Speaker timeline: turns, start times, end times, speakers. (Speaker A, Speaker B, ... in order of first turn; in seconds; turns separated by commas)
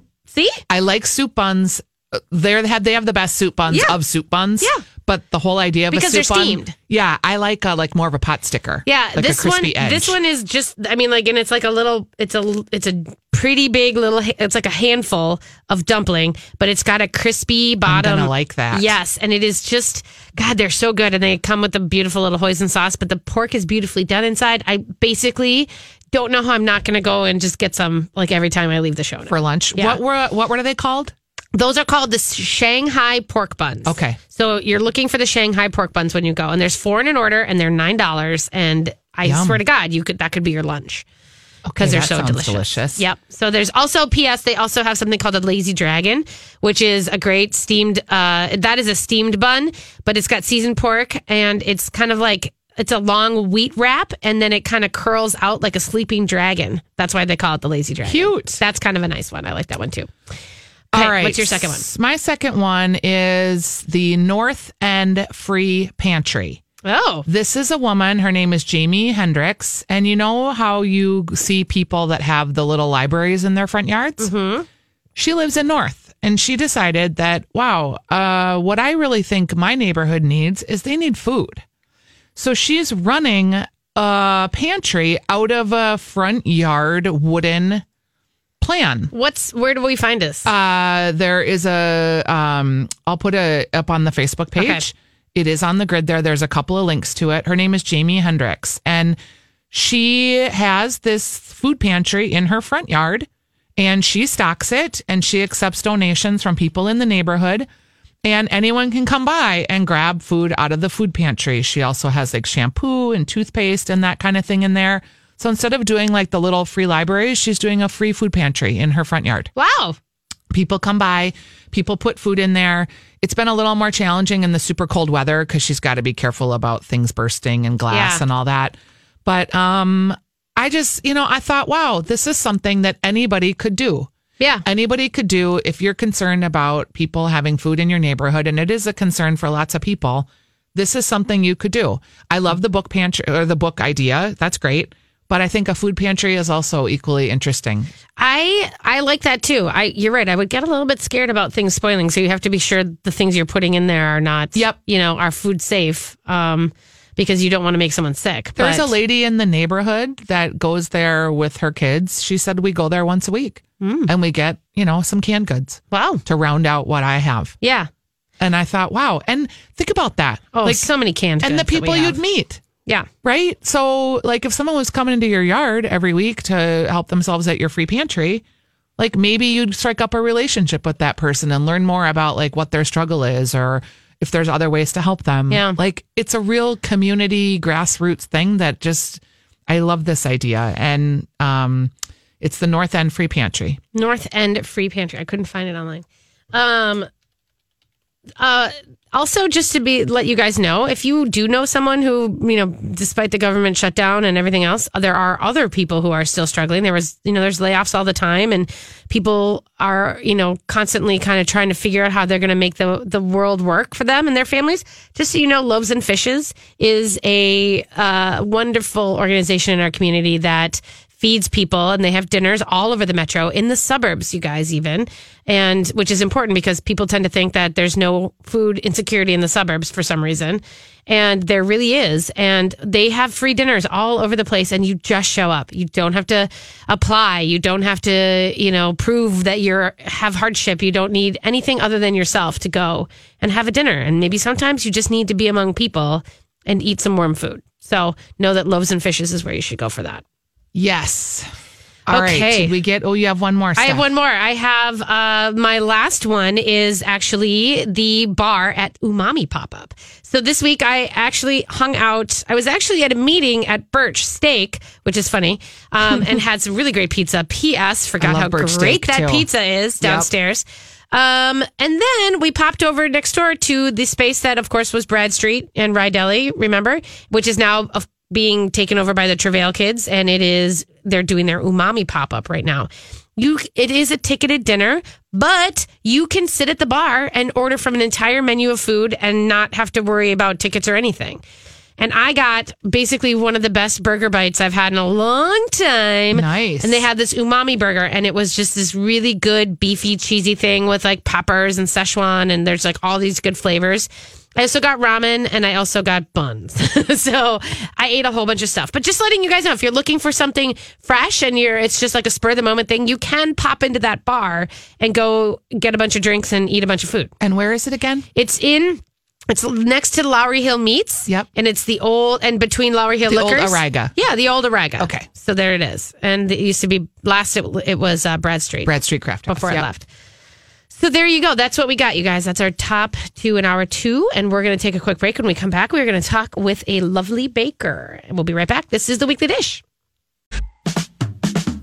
Speaker A: 0.3-0.6, Speaker B: 0.7-10.2, Speaker A: 3.7-4.0, Speaker A: 5.9-6.7, Speaker A: 8.9-30.0, Speaker B: 17.9-18.9, Speaker B: 29.3-31.1, Speaker A: 31.6-41.0, Speaker B: 33.9-34.2, Speaker B: 39.2-39.6, Speaker B: 41.7-43.0, Speaker A: 41.8-60.1, Speaker B: 58.1-58.6, Speaker A: 60.9-61.9, Speaker B: 60.9-66.6, Speaker A: 66.8-67.3, Speaker B: 67.3-74.3, Speaker A: 74.2-74.7, Speaker B: 75.2-81.6, Speaker B: 82.4-87.8, Speaker B: 88.6-89.1, Speaker A: 89.1-90.5, Speaker B: 90.5-99.2, Speaker A: 94.6-94.8, Speaker B: 99.7-107.7, Speaker B: 108.2-119.5, Speaker A: 119.6-120.0, Speaker B: 120.5-134.1, Speaker A: 127.9-128.2, Speaker A: 134.4-134.6, Speaker B: 134.6-147.9, Speaker A: 148.2-158.9, Speaker B: 158.6-167.6, Speaker A: 163.8-164.1, Speaker A: 165.9-166.2, Speaker A: 167.6-167.9, Speaker B: 168.4-170.9, Speaker A: 170.5-172.2, Speaker B: 171.4-172.6, Speaker B: 173.2-178.4, Speaker B: 179.0-193.8, Speaker A: 185.5-185.8, Speaker A: 193.9-197.1, Speaker A: 198.4-250.2, Speaker B: 250.7-251.5, Speaker B: 252.1-254.1, Speaker A: 252.1-252.8, Speaker A: 253.8-291.4, Speaker B: 268.2-269.5, Speaker B: 270.0-270.3, Speaker A: 292.0-317.3, Speaker B: 296.3-297.1, Speaker B: 317.4-318.3, Speaker A: 318.4-328.9, Speaker B: 323.3-324.1, Speaker B: 325.0-325.3, Speaker B: 328.9-329.9, Speaker A: 329.5-330.1, Speaker A: 330.9-339.8